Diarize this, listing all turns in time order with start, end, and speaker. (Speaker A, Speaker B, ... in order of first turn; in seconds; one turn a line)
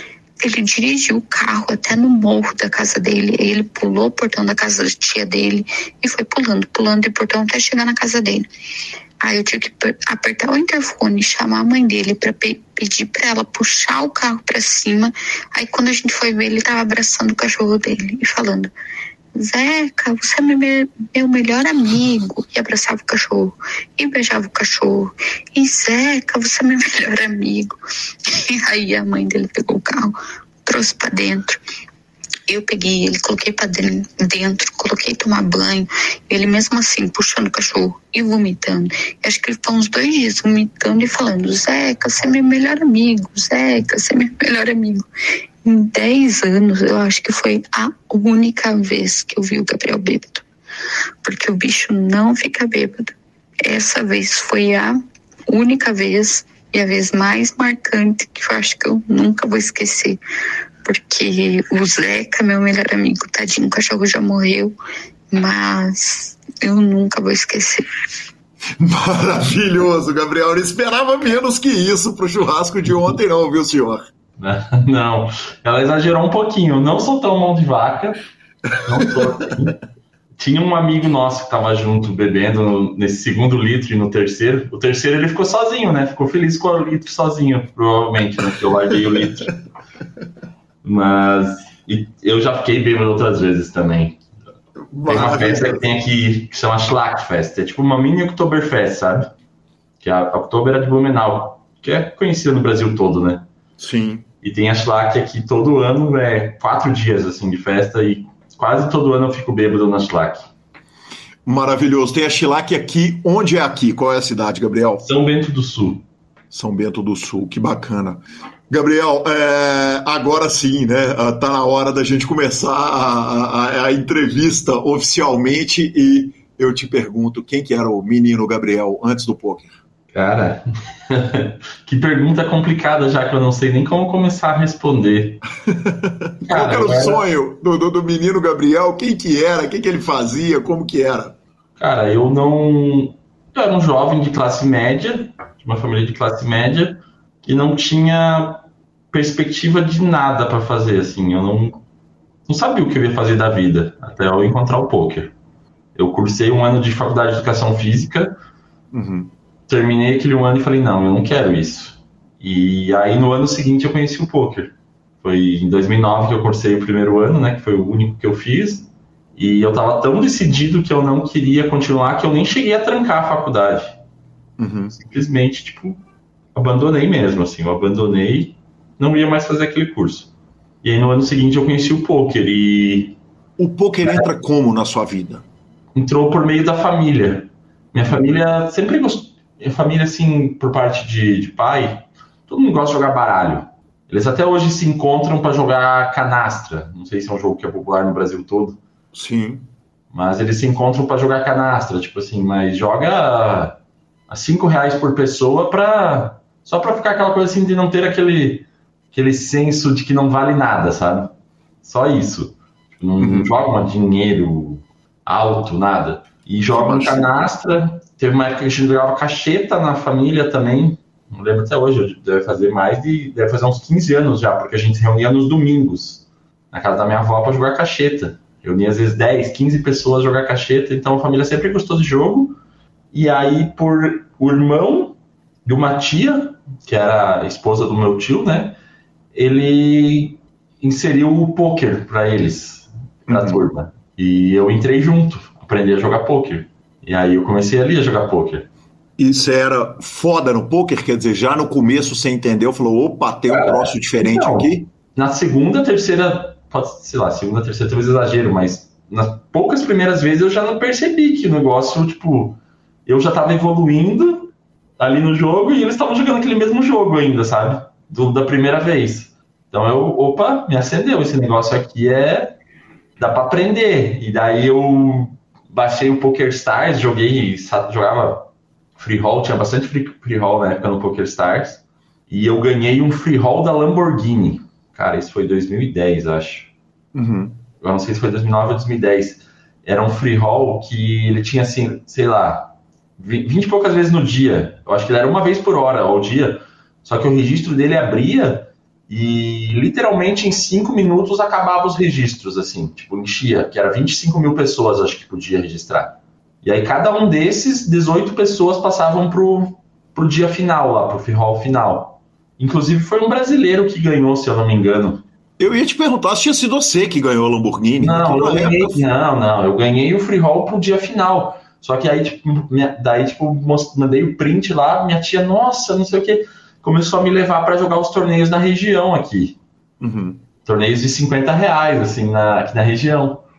Speaker A: 0.4-8.4
Speaker A: 9.2-18.7
Speaker A: 19.4-27.8
Speaker A: 28.3-30.1
Speaker A: 30.6-31.6
Speaker A: 32.5-45.0
Speaker A: 45.6-50.4
Speaker A: 51.2-55.0
Speaker A: 55.5-60.2
Speaker A: 60.8-64.7
Speaker A: 65.3-67.8
Speaker B: 68.7-74.0
Speaker C: 74.4-78.2
Speaker C: 78.8-79.8
Speaker C: 80.4-89.5
Speaker C: 90.8-94.2
Speaker B: 94.9-95.9
Speaker C: 95.1-99.3
Speaker C: 100.0-103.5
Speaker B: 103.8-104.2
Speaker C: 104.4-110.5
Speaker B: 111.5-115.0
Speaker C: 115.0-116.0
Speaker B: 116.5-129.8
Speaker C: 130.1-135.4
Speaker B: 135.7-141.3
Speaker C: 136.5-137.2
Speaker C: 141.8-151.8
Speaker C: 152.5-155.3
Speaker C: 155.9-158.4
Speaker B: 158.9-159.3
Speaker C: 159.7-174.0
Speaker B: 174.6-174.9
Speaker C: 174.9-176.0
Speaker C: 176.5-180.3
Speaker C: 180.8-183.2
Speaker B: 183.6-185.4
Speaker C: 185.9-198.8
Speaker B: 199.1-199.7
Speaker C: 200.1-203.8
Speaker C: 204.3-211.3
Speaker C: 211.8-232.6
Speaker B: 213.2-213.5
Speaker B: 216.7-217.3
Speaker C: 233.1-238.8
Speaker C: 239.3-248.7
Speaker B: 243.3-243.6
Speaker B: 249.2-254.9
Speaker C: 253.5-272.5
Speaker C: 273.2-286.7
Speaker B: 287.1-287.6
Speaker C: 287.8-315.2
Speaker B: 315.6-319.0
Speaker C: 318.0-329.6
Speaker B: 330.0-330.4
Speaker C: 330.6-333.4